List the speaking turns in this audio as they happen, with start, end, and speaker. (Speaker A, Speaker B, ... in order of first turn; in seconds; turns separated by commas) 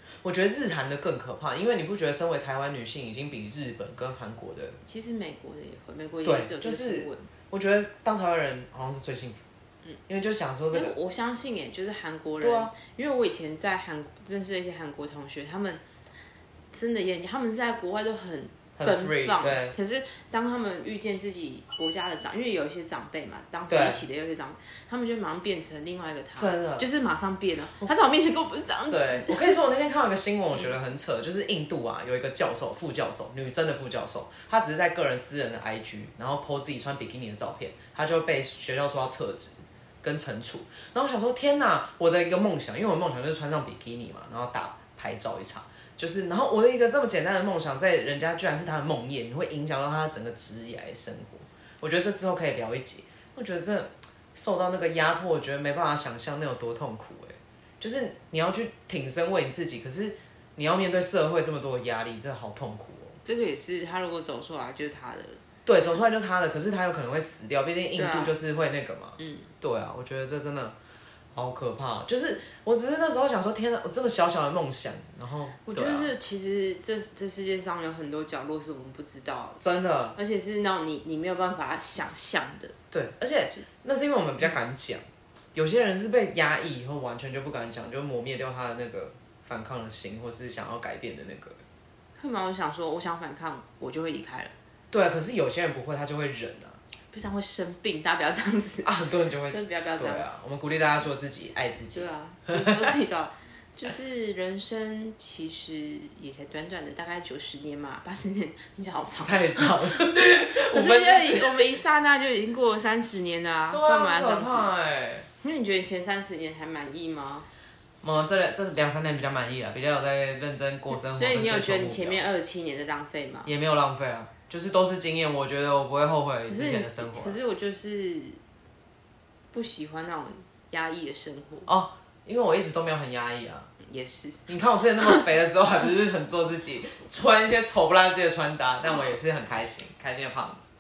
Speaker A: 0.2-4.8, Speaker B: 4.8-7.3, Speaker A: 6.2-9.4, Speaker A: 10.1-10.9, Speaker B: 10.7-15.8, Speaker A: 12.4-12.7, Speaker B: 16.7-29.6, Speaker A: 18.8-19.8, Speaker A: 23.7-24.0, Speaker A: 26.4-26.9, Speaker A: 28.9-63.2, Speaker B: 63.2-65.4, Speaker A: 65.7-70.8, Speaker B: 68.0-68.4, Speaker B: 69.2-69.5, Speaker A: 71.3-76.1, Speaker B: 75.6-79.6, Speaker A: 79.6-80.2, Speaker B: 80.2-82.8, Speaker A: 82.9-85.0, Speaker A: 85.5-91.6, Speaker B: 92.2-94.5, Speaker A: 94.9-96.8, Speaker B: 97.1-98.9, Speaker A: 98.8-102.8, Speaker B: 99.5-100.4, Speaker B: 101.9-114.7, Speaker A: 109.2-111.5, Speaker A: 113.7-115.3, Speaker B: 115.4-117.5, Speaker A: 118.0-122.2, Speaker B: 120.9-123.5, Speaker A: 123.5-127.4, Speaker B: 126.5-128.4, Speaker B: 129.5-131.7, Speaker A: 131.7-133.7, Speaker B: 133.8-134.4, Speaker A: 134.5-140.6